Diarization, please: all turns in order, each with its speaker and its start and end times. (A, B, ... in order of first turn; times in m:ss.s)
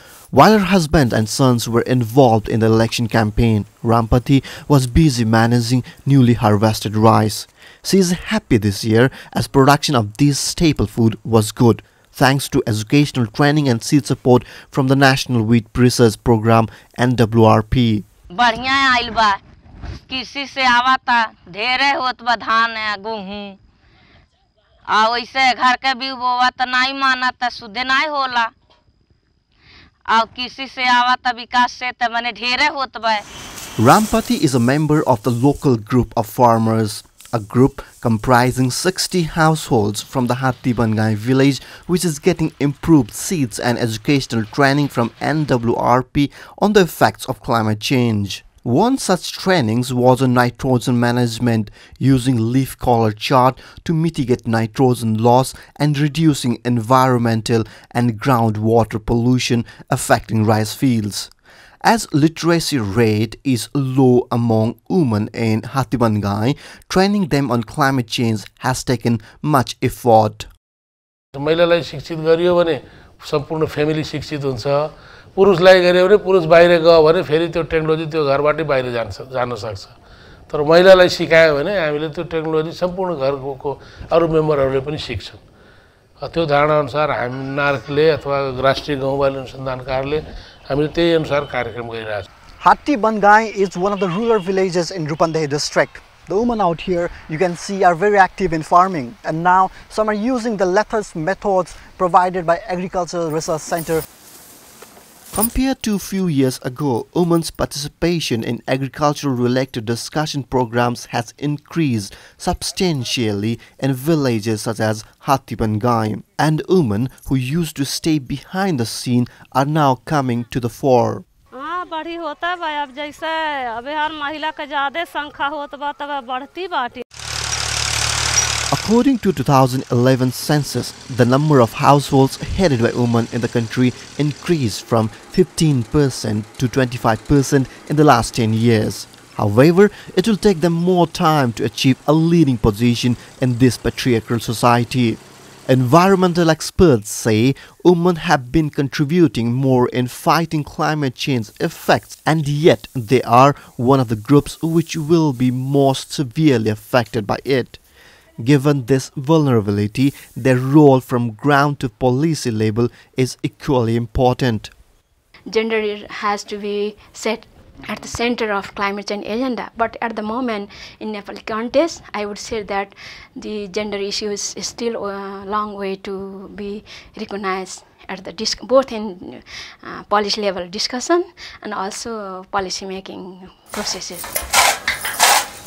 0:00.3-0:18.0 A
0:18.4-0:19.4 B
0:20.1-0:23.6 B
0:24.9-0:28.5 B
0:30.1-0:33.2 B
0:33.8-1:01.3 A
1:01.8-1:10.5 A
1:11.4-1:19.9 C
1:20.5-1:25.4 C
1:26.2-1:32.3 C
1:32.6-1:44.0 D
1:45.3-2:01.2 A
2:01.6-2:07.0 E
2:08.7-2:37.8 A
2:38.4-2:44.7 A
2:45.5-3:04.4 F